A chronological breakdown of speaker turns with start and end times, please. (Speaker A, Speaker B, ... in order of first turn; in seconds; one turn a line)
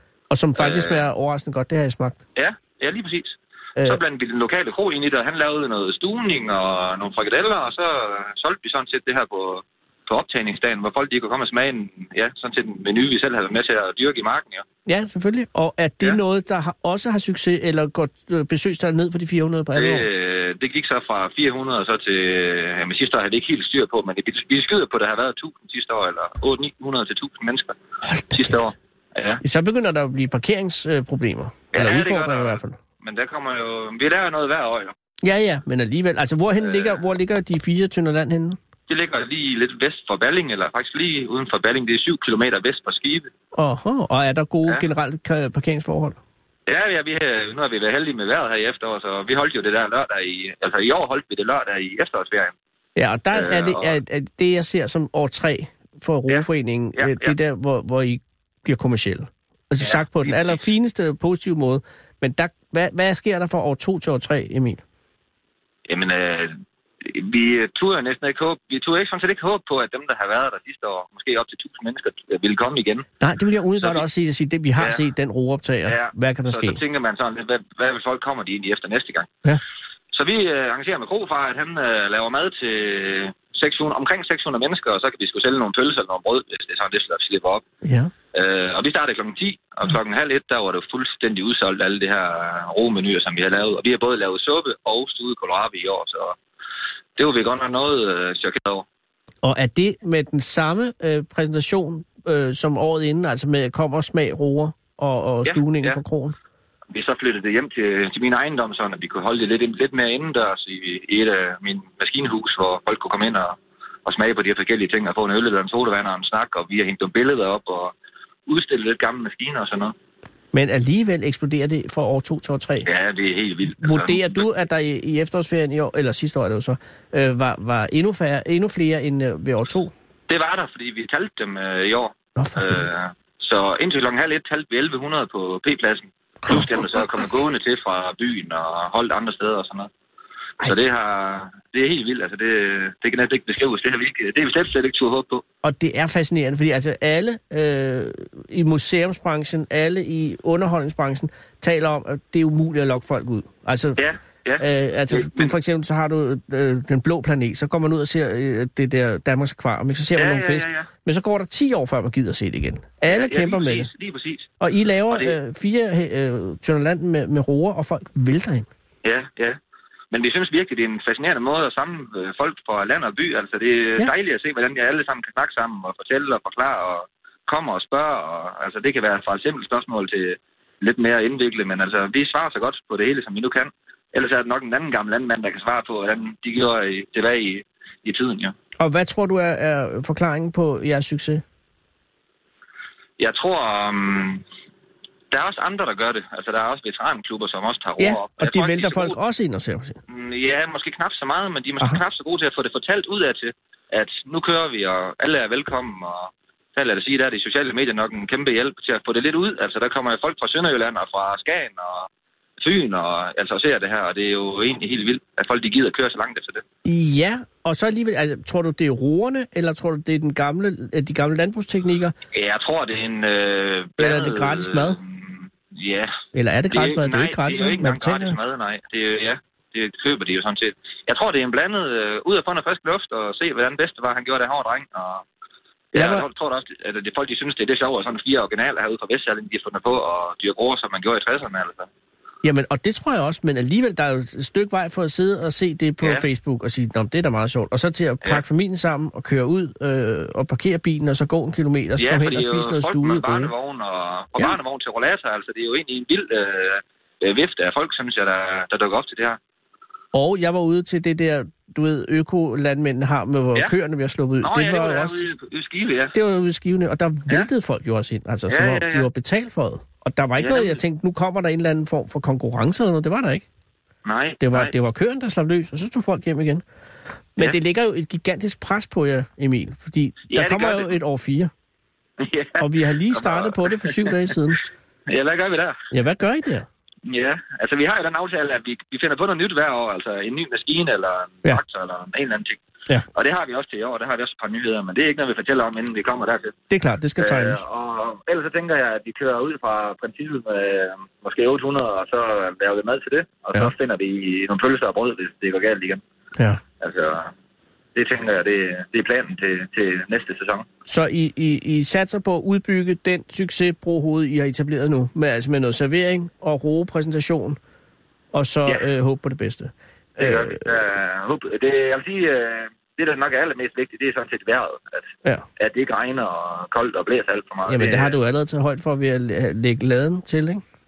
Speaker A: 0.3-2.2
Speaker B: 0.6-1.1
Speaker B: 2.4-14.7
Speaker A: 14.9-20.1
Speaker B: 19.8-27.8
Speaker A: 28.0-28.7
Speaker B: 28.3-29.4
Speaker A: 29.4-32.8
Speaker B: 31.7-34.9
Speaker A: 35.2-38.6
Speaker B: 36.6-37.0
Speaker B: 38.9-43.3
Speaker A: 43.5-46.2
Speaker B: 46.7-52.5
Speaker A: 53.0-64.8
Speaker B: 53.3-54.0
Speaker B: 56.3-57.3
Speaker B: 59.8-60.6
Speaker B: 65.9-73.1
Speaker A: 73.2-76.8
Speaker B: 73.8-74.0
Speaker B: 75.9-79.3
Speaker B: 80.1-87.6
Speaker A: 87.8-88.1
Speaker B: 88.3-96.4
Speaker B: 97.2-98.9
Speaker A: 99.4-106.4
Speaker B: 105.5-106.0
Speaker B: 106.9-117.9
Speaker B: 118.5-120.0
Speaker A: 120.5-122.9
Speaker B: 122.9-124.4
Speaker A: 123.8-129.9
Speaker B: 130.3-139.9
Speaker A: 132.4-132.9
Speaker A: 136.5-137.1
Speaker B: 140.6-145.4
Speaker A: 145.6-154.1
Speaker B: 154.0-155.5
Speaker A: 154.6-163.9
Speaker B: 160.2-160.9
Speaker B: 163.0-164.5
Speaker A: 164.6-168.7
Speaker B: 165.1-165.3
Speaker B: 169.0-169.6
Speaker B: 170.1-188.6
Speaker A: 188.8-191.4
Speaker B: 193.2-194.4
Speaker B: 195.3-199.2
Speaker A: 198.0-200.0
Speaker B: 200.1-212.1
Speaker B: 212.6-216.6
Speaker A: 216.8-222.2
Speaker B: 222.3-226.1
Speaker A: 224.0-225.0
Speaker A: 226.3-228.4
Speaker B: 226.7-235.2
Speaker B: 235.9-241.9
Speaker A: 235.9-236.2
Speaker A: 242.4-253.5
Speaker B: 252.0-259.4
Speaker A: 260.1-265.1
Speaker B: 264.4-266.1
Speaker A: 266.1-273.4
Speaker B: 268.5-269.1
Speaker B: 270.4-270.8
Speaker B: 274.1-274.7
Speaker A: 274.4-276.6
Speaker A: 277.4-281.5
Speaker B: 280.3-281.0
Speaker B: 282.2-284.4
Speaker A: 282.6-284.6
Speaker B: 285.1-285.8
Speaker A: 285.9-286.7
Speaker B: 287.1-292.6
Speaker B: 293.1-296.5
Speaker A: 296.7-297.6
Speaker B: 297.2-306.0
Speaker A: 306.4-306.6
Speaker B: 306.8-307.3
Speaker B: 307.9-310.7
Speaker A: 310.9-317.6
Speaker A: 318.3-320.8
Speaker B: 320.2-325.1
Speaker B: 325.6-328.2
Speaker A: 327.7-330.6